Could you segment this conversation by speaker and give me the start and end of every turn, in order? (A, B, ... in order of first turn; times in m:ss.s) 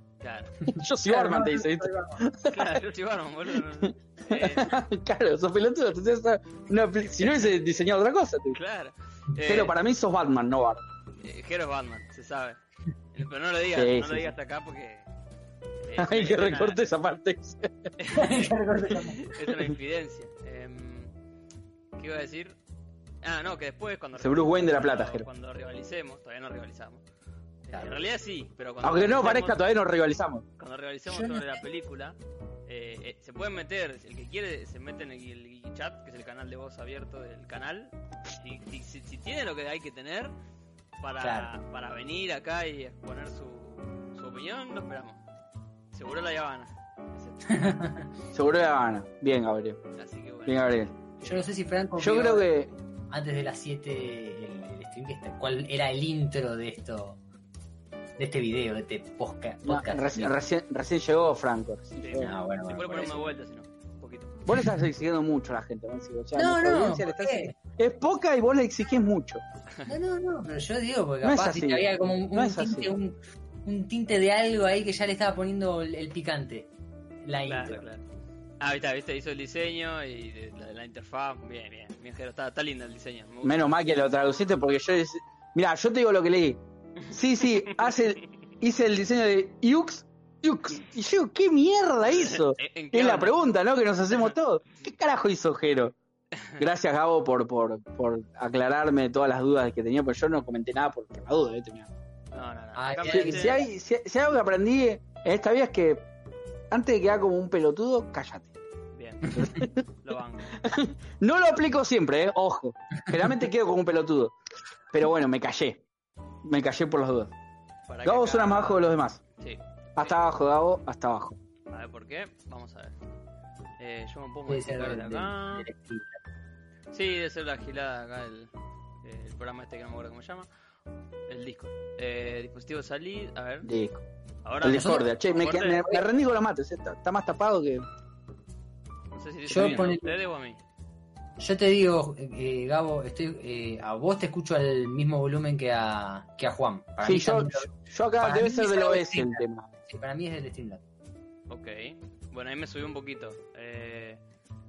0:00.2-0:00.5 A
0:00.7-0:02.8 B
0:01.1-0:02.2 C
0:02.5-0:04.8 A
0:03.8-0:08.6 B
0:08.5-0:09.7 A
0:09.4-0:10.8 B
0:11.2-0:12.6 A
0:13.1-0:15.0 A
0:13.7-0:14.3 B
0:15.8-0:16.8 A
0:16.0-0:17.9 B
0:18.0-0:21.1 A
0:18.1-0:19.2 C
0:21.9-0:22.6 A
0:23.2-0:27.0 A
0:24.2-0:25.2 B
0:27.7-0:29.6 A
0:28.8-0:30.4 B
0:30.6-0:32.2 A
0:31.1-0:31.6 C
0:32.7-0:40.3 A
0:41.0-0:45.2 A
0:41.2-0:41.5 C
0:45.9-0:47.8 A
0:47.5-0:48.1 C
0:48.3-0:49.8 B
0:50.0-0:51.4 A
0:50.4-0:50.9 B
0:51.2-0:52.5 C
0:52.0-0:52.7 B
0:53.1-0:57.2 C
0:58.2-1:00.3 C
0:59.6-1:02.3 B
1:02.0-1:04.4 A
1:02.2-1:03.3 C
1:04.4-1:09.4 B
1:06.3-1:07.5 C
1:09.8-1:16.7 C
1:11.2-1:12.9 B
1:17.2-1:17.8 C
1:17.5-1:18.0 A
1:18.6-1:23.8 A
1:23.4-1:35.9 B
1:32.0-1:33.4 A
1:36.6-1:41.9 B
1:42.3-1:43.6 A
1:42.7-1:43.6 C
1:43.1-1:46.1 B
1:46.7-1:48.5 B
1:49.0-1:49.4 A
1:49.3-1:49.8 B
1:50.0-1:50.5 A
1:50.5-1:54.3 B
1:54.9-1:55.8 B
1:56.4-1:57.3 B
1:57.9-1:58.8 A
1:58.0-1:59.2 B
1:59.4-2:00.1 A
2:00.0-2:01.4 B
2:01.7-2:02.9 A
2:03.8-2:05.6 A
2:04.5-2:06.2 C
2:06.9-2:08.5 A
2:09.0-2:10.5 A
2:11.3-2:13.7 A
2:13.6-2:14.0 B
2:14.4-2:15.8 A
2:14.6-2:17.9 B
2:19.1-2:20.6 A
2:19.5-2:20.1 C
2:21.4-2:30.8 C
2:27.0-2:29.7 B
2:31.5-2:34.2 A